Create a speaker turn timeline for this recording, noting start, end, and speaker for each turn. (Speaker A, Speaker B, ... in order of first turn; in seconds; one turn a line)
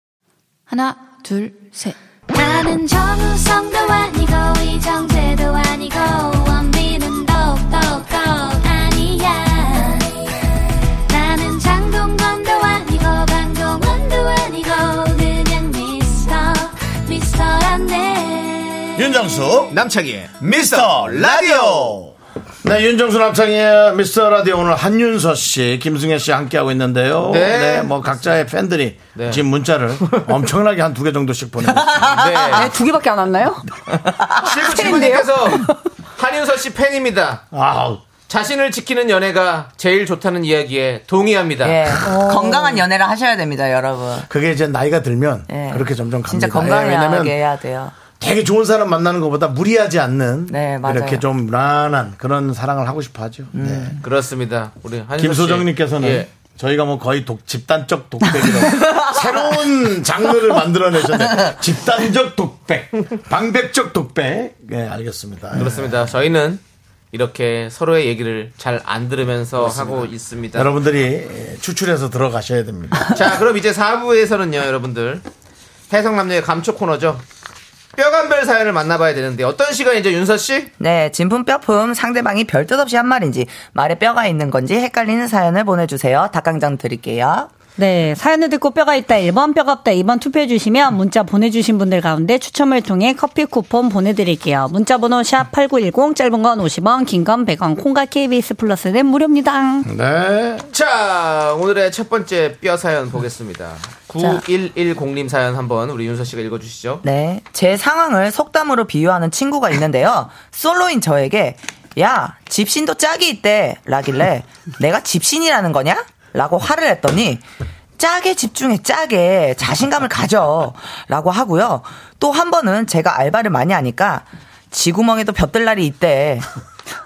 Speaker A: 2.3-10.4
Speaker A: 11.1-19.1
Speaker B: 18.9-19.8
Speaker C: 19.7-22.0
Speaker B: 20.4-32.3
Speaker C: 27.3-28.3
Speaker C: 29.1-29.4
Speaker C: 30.0-30.3
Speaker D: 31.9-32.7
Speaker C: 32.1-32.7
Speaker E: 32.5-33.8
Speaker D: 34.0-34.5
Speaker C: 34.4-37.4
Speaker E: 34.5-35.8
Speaker B: 37.5-38.0
Speaker C: 38.3-42.0
Speaker D: 41.6-44.3
Speaker E: 42.0-42.9
Speaker B: 44.3-47.4
Speaker D: 45.5-48.0
Speaker B: 48.1-54.0
Speaker D: 50.5-51.2
Speaker D: 53.5-54.0
Speaker C: 54.0-56.3
Speaker B: 55.2-66.1
Speaker E: 58.3-58.8
Speaker D: 58.9-59.3
Speaker C: 65.5-66.6
Speaker C: 67.1-70.7
Speaker B: 69.6-73.2
Speaker C: 73.1-75.2
Speaker C: 75.9-77.2
Speaker C: 78.0-80.7
Speaker D: 80.8-87.5
Speaker E: 87.8-99.9
Speaker B: 99.8-100.7
Speaker C: 100.7-107.0
Speaker D: 107.0-117.4
Speaker D: 118.0-126.5